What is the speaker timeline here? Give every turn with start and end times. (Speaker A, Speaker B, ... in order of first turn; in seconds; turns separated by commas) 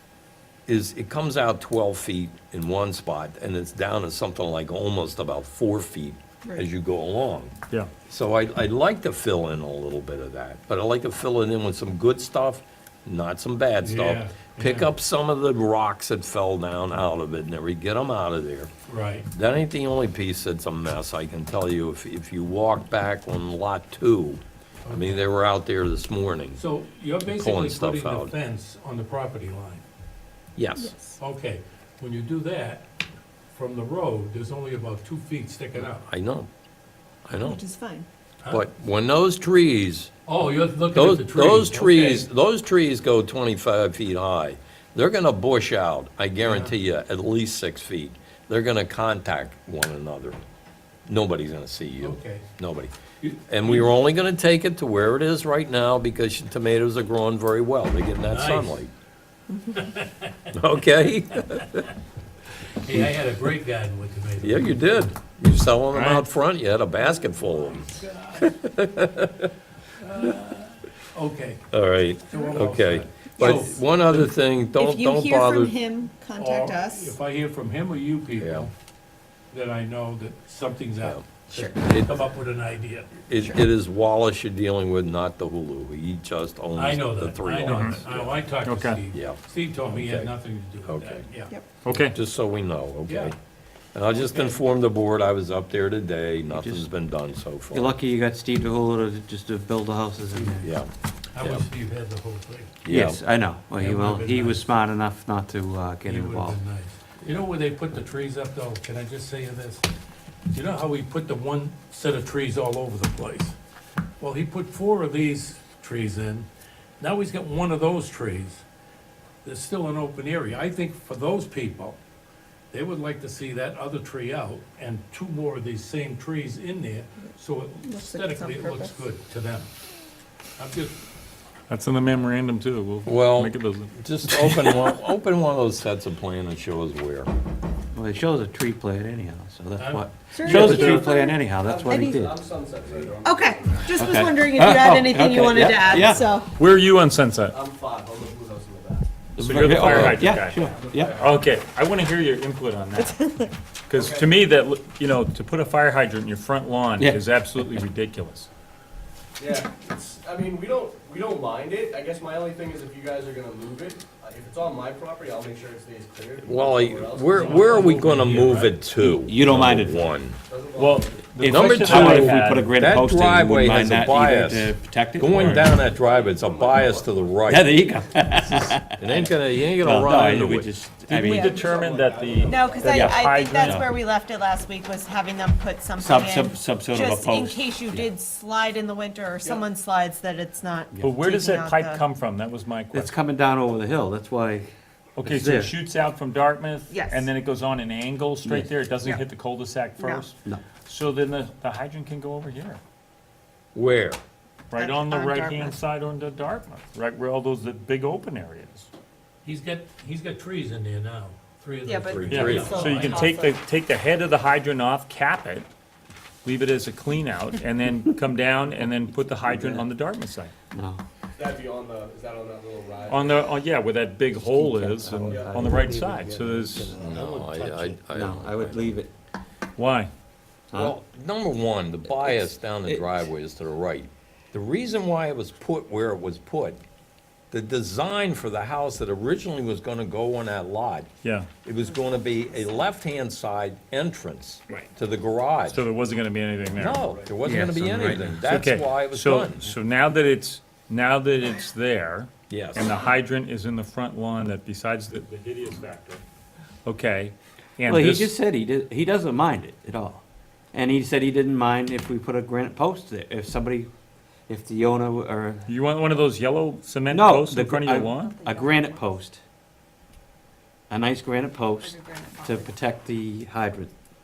Speaker A: 0.7-7.5, Speaker A: 8.1-18.7, Speaker B: 13.8-14.9, Speaker B: 18.9-19.3, Speaker A: 19.3-26.6, Speaker B: 24.8-25.2, Speaker B: 26.5-29.8, Speaker A: 27.2-28.3, Speaker A: 30.6-30.9, Speaker C: 30.8-31.2, Speaker B: 31.2-32.8, Speaker B: 33.5-36.0, Speaker A: 35.7-36.5, Speaker A: 37.3-37.6, Speaker C: 37.4-38.0, Speaker A: 38.5-40.1, Speaker B: 40.2-42.3, Speaker A: 40.9-50.4, Speaker B: 46.4-46.7, Speaker A: 51.1-52.9, Speaker B: 52.0-52.5, Speaker B: 53.2-53.9, Speaker A: 53.5-58.9, Speaker B: 58.2-58.8, Speaker B: 59.7-60.4, Speaker A: 60.5-61.9, Speaker B: 62.8-65.1, Speaker A: 64.4-69.5, Speaker B: 65.9-66.3, Speaker B: 67.3-68.5, Speaker B: 70.0-71.6, Speaker A: 71.7-75.7, Speaker B: 72.2-74.3, Speaker C: 74.8-77.1, Speaker B: 76.3-78.7, Speaker A: 78.4-78.7, Speaker B: 79.5-83.2, Speaker A: 81.0-82.2, Speaker A: 83.3-88.4, Speaker B: 86.7-91.5, Speaker D: 87.7-88.0, Speaker D: 88.6-89.0, Speaker A: 89.1-91.2, Speaker D: 91.8-92.1, Speaker A: 91.9-93.3, Speaker B: 93.0-93.3, Speaker A: 93.9-97.9, Speaker B: 94.1-94.6, Speaker E: 96.5-96.9, Speaker E: 97.7-100.7, Speaker A: 100.6-101.7, Speaker B: 101.3-102.8, Speaker A: 102.8-103.2, Speaker E: 102.9-106.6, Speaker B: 103.7-104.6, Speaker B: 106.0-109.9, Speaker B: 110.5-113.5, Speaker B: 114.2-116.5, Speaker B: 117.0-118.6, Speaker B: 119.4-122.0, Speaker B: 122.7-129.7, Speaker C: 127.8-129.0, Speaker B: 130.6-130.9, Speaker D: 131.7-134.7, Speaker A: 133.0-137.3, Speaker E: 137.9-142.3, Speaker B: 139.8-140.8, Speaker C: 140.3-141.3, Speaker D: 140.5-141.2, Speaker F: 141.6-144.0, Speaker C: 141.9-142.2, Speaker C: 143.2-146.5, Speaker E: 143.9-146.2, Speaker D: 146.5-147.5, Speaker F: 147.5-149.1, Speaker E: 149.4-151.1, Speaker D: 149.4-153.2, Speaker A: 149.7-150.2, Speaker F: 149.9-151.3, Speaker C: 152.9-153.5, Speaker D: 153.9-158.5, Speaker F: 153.9-154.4, Speaker E: 157.0-157.8, Speaker F: 159.4-167.9, Speaker A: 166.4-170.4, Speaker B: 167.3-168.8, Speaker E: 169.0-170.0, Speaker F: 170.5-171.2, Speaker D: 170.8-172.7, Speaker E: 171.4-175.8, Speaker A: 171.4-177.7, Speaker F: 171.9-172.2, Speaker F: 175.6-177.3, Speaker E: 177.5-181.5, Speaker A: 178.4-180.7, Speaker D: 181.1-183.9, Speaker C: 181.3-181.9, Speaker F: 181.3-183.1, Speaker C: 182.4-192.0, Speaker E: 182.8-183.9, Speaker E: 186.0-188.1, Speaker D: 191.0-193.1, Speaker E: 192.9-195.8, Speaker D: 195.2-202.8, Speaker C: 196.9-197.3, Speaker E: 198.4-198.7, Speaker C: 200.0-200.3, Speaker A: 203.7-204.2, Speaker D: 204.7-208.9, Speaker C: 204.7-205.8, Speaker B: 209.4-213.2, Speaker C: 211.8-213.6, Speaker A: 212.1-213.0, Speaker D: 212.3-215.7, Speaker F: 212.4-212.7, Speaker D: 216.4-220.5, Speaker E: 219.4-219.8, Speaker E: 220.7-221.0, Speaker F: 221.3-223.5, Speaker D: 223.1-226.9, Speaker E: 224.3-227.2, Speaker F: 225.3-225.8, Speaker F: 226.7-227.8, Speaker A: 226.9-229.0, Speaker B: 227.2-227.9, Speaker E: 228.1-229.1, Speaker D: 229.8-230.1, Speaker E: 230.7-230.9, Speaker A: 230.7-236.8, Speaker E: 232.1-233.2, Speaker A: 237.5-241.1, Speaker D: 241.2-241.5, Speaker A: 241.6-245.8, Speaker D: 245.7-247.1, Speaker A: 246.7-249.6, Speaker F: 246.9-247.3, Speaker E: 247.4-248.4, Speaker D: 248.4-256.2, Speaker A: 252.5-252.9, Speaker D: 256.8-258.3, Speaker E: 257.9-263.9, Speaker E: 264.5-265.7, Speaker D: 265.7-268.4, Speaker E: 267.1-269.4, Speaker C: 268.1-269.0, Speaker E: 270.9-273.9, Speaker C: 271.8-272.6